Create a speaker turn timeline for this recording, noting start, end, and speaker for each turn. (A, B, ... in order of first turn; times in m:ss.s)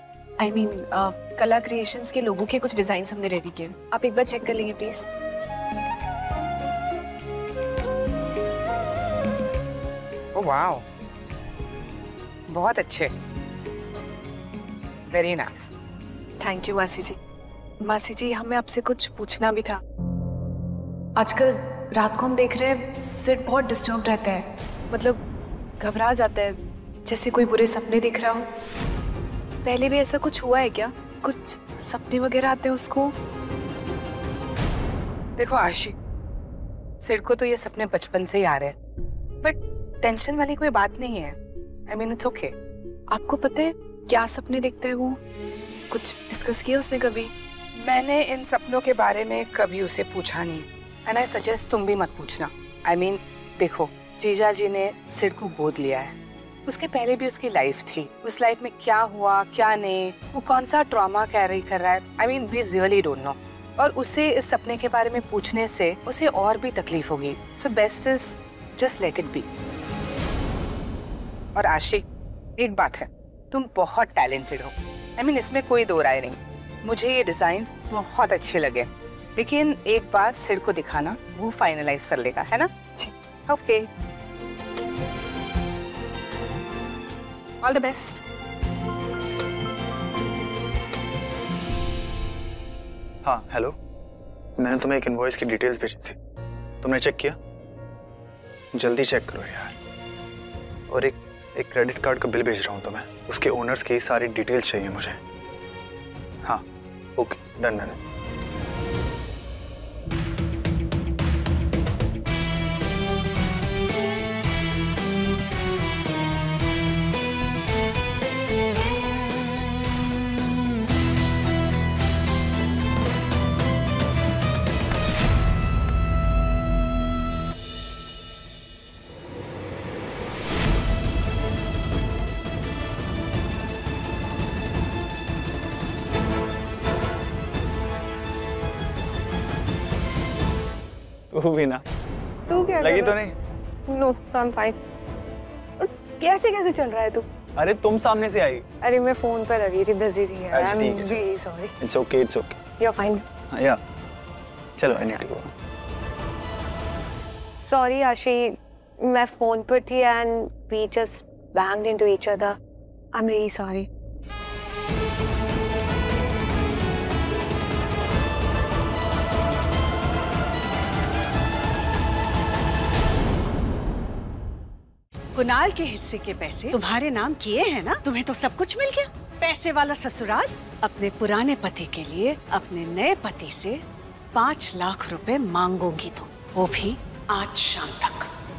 0:00.4-0:05.1 A
0:10.4-0:10.8 B
0:12.5-0:13.1 B
0:15.1-0:15.7 B
0:16.4-0:17.2 A
0:17.8-0:19.8 A
0:21.2-0:25.2 A
0:25.8-0:28.5 A
0:29.6-0:33.2 A
0:35.4-0:36.0 B
0:37.0-0:38.8 B
0:39.4-0:41.4 B
0:41.9-0:42.5 B
0:43.1-0:45.2 A
0:45.9-0:47.3 A
0:47.8-0:56.1 B
0:56.7-1:09.4 B
1:11.6-1:12.0 B
1:12.6-1:22.7 B
1:23.5-1:23.9 B
1:27.6-1:28.2 B
1:33.2-1:33.8 C
1:34.6-1:36.2 C
1:36.8-1:37.4 C
1:38.8-1:39.8 C
1:40.9-1:45.2 C
1:47.2-1:48.0 C
2:21.3-2:21.8 C
2:22.5-2:23.2 D
2:22.8-2:23.3 C
2:23.9-2:24.8 D
2:25.8-2:27.3 D
2:27.6-2:28.6 C
2:28.8-2:31.7 D
2:30.5-2:31.3 C
2:31.8-2:32.6 C
2:32.8-2:33.2 D
2:33.5-2:33.8 C
2:34.8-2:35.5 C
2:37.5-2:42.6 D
2:43.1-2:43.9 D
2:55.4-3:03.8 E
3:04.4-3:08.3 E
3:06.5-3:07.0 D